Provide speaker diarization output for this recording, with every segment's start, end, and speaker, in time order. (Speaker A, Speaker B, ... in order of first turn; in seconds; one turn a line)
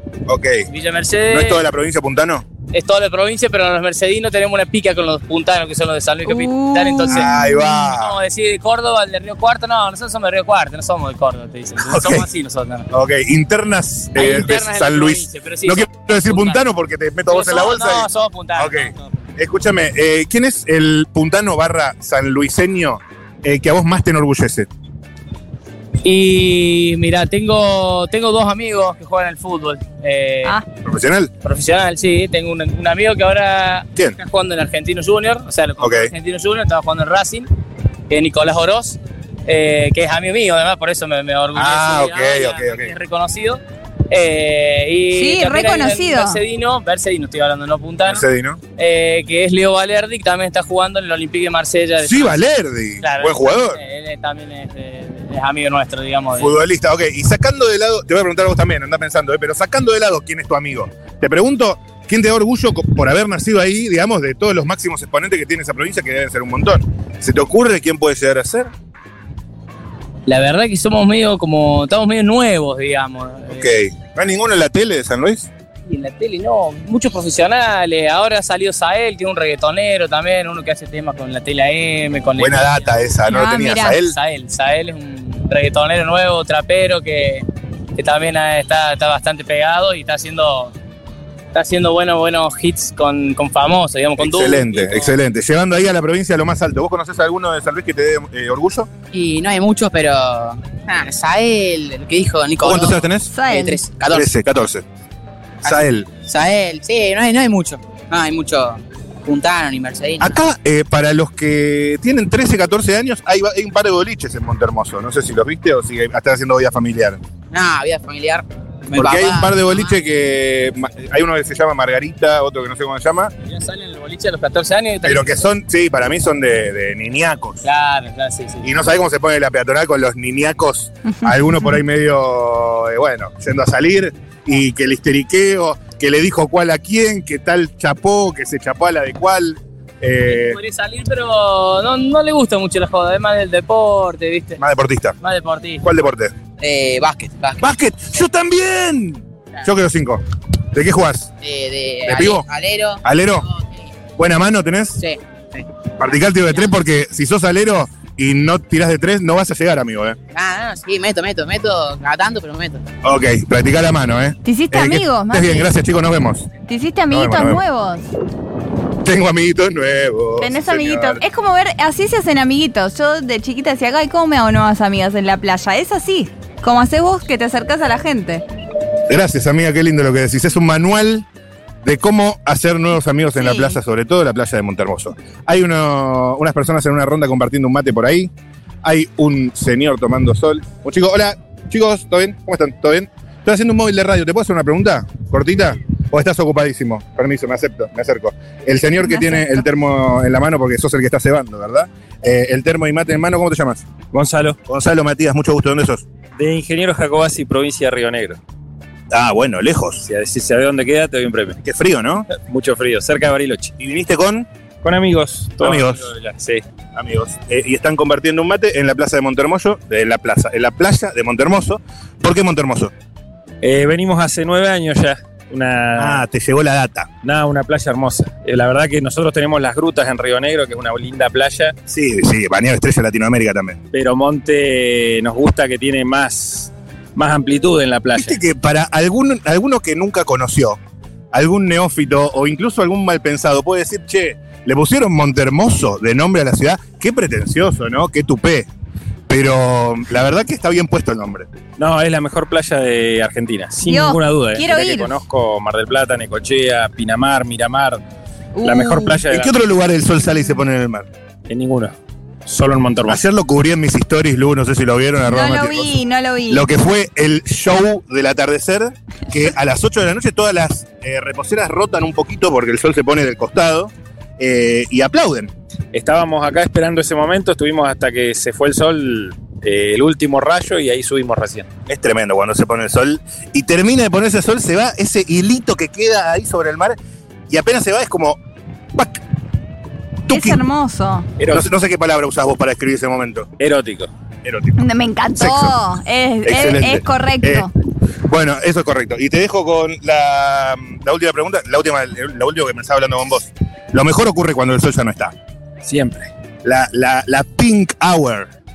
Speaker A: 0.3-0.7
Speaker B: 0.7-1.6
Speaker A: 1.3-2.5
Speaker B: 2.7-12.9
Speaker C: 6.2-7.8
Speaker A: 7.1-8.2
Speaker A: 11.8-12.2
Speaker A: 12.9-24.7
Speaker B: 14.1-16.6
Speaker B: 17.3-19.0
Speaker B: 26.0-30.6
Speaker A: 30.8-31.3
Speaker B: 31.4-37.5
Speaker A: 35.8-36.1
Speaker B: 38.1-48.2
Speaker A: 41.5-42.9
Speaker C: 45.1-46.4
Speaker A: 48.1-48.6
Speaker B: 48.8-52.4
Speaker A: 52.0-53.8
Speaker B: 53.0-56.5
Speaker A: 56.4-68.7
Speaker B: 70.3-73.7
Speaker A: 73.5-75.5
Speaker B: 75.9-83.1
Speaker A: 82.4-84.2
Speaker C: 83.3-84.0
Speaker B: 83.9-87.4
Speaker B: 88.0-90.7
Speaker B: 91.5-95.1
Speaker A: 94.2-98.9
Speaker D: 99.1-104.3
Speaker A: 102.6-103.3
Speaker C: 103.3-103.8
Speaker A: 104.1-104.8
Speaker A: 105.6-106.1
Speaker D: 105.6-110.4
Speaker A: 110.2-117.2
Speaker D: 117.5-119.9
Speaker A: 118.9-123.3
Speaker B: 123.4-125.5
Speaker A: 125.0-127.6
Speaker B: 127.6-128.7
Speaker A: 128.6-140.6
Speaker B: 140.3-144.6
Speaker A: 144.6-145.2
Speaker B: 145.2-145.8
Speaker A: 145.8-146.3
Speaker D: 146.6-147.6
Speaker A: 147.6-151.3
Speaker D: 151.4-153.6
Speaker A: 152.1-152.4
Speaker A: 153.0-153.5
Speaker A: 154.2-155.0
Speaker D: 155.0-155.6
Speaker A: 156.0-160.2
Speaker D: 156.4-156.7
Speaker D: 160.3-162.8
Speaker A: 163.0-166.5
Speaker C: 164.4-165.7
Speaker C: 166.7-168.1
Speaker A: 167.1-167.6
Speaker A: 169.0-171.2
Speaker C: 170.4-178.4
Speaker A: 179.1-181.2
Speaker A: 181.8-188.3
Speaker C: 183.4-183.8
Speaker A: 188.8-203.9
Speaker C: 199.0-199.6
Speaker E: 204.1-204.6
Speaker A: 204.7-206.1
Speaker E: 206.4-208.4
Speaker A: 209.1-210.0
Speaker E: 210.0-211.6
Speaker A: 211.6-212.3
Speaker E: 212.3-213.7
Speaker A: 213.8-214.5
Speaker E: 214.8-216.6
Speaker A: 215.6-216.1
Speaker A: 216.9-222.9
Speaker E: 223.6-226.2
Speaker A: 225.9-227.1
Speaker E: 227.2-231.8
Speaker A: 231.9-233.8
Speaker E: 233.9-238.4
Speaker A: 238.1-240.8
Speaker A: 241.3-248.7
Speaker A: 249.3-251.5
Speaker E: 251.8-258.0
Speaker C: 253.8-255.2
Speaker C: 258.6-259.2
Speaker E: 258.6-259.6
Speaker A: 259.2-261.1
Speaker E: 261.5-261.9
Speaker E: 262.4-263.2
Speaker A: 263.1-265.9
Speaker C: 265.2-266.7
Speaker A: 266.5-275.5
Speaker E: 275.9-281.7
Speaker A: 281.9-287.0
Speaker A: 287.5-288.4
Speaker A: 288.9-289.2
Speaker A: 290.3-290.6
Speaker C: 290.3-291.3
Speaker E: 291.4-291.7
Speaker A: 291.5-293.5
Speaker E: 293.6-294.1
Speaker A: 294.4-294.8
Speaker C: 294.8-297.7
Speaker A: 295.3-295.8
Speaker A: 296.4-297.7
Speaker A: 298.3-305.3
Speaker E: 305.8-306.3
Speaker A: 306.6-308.5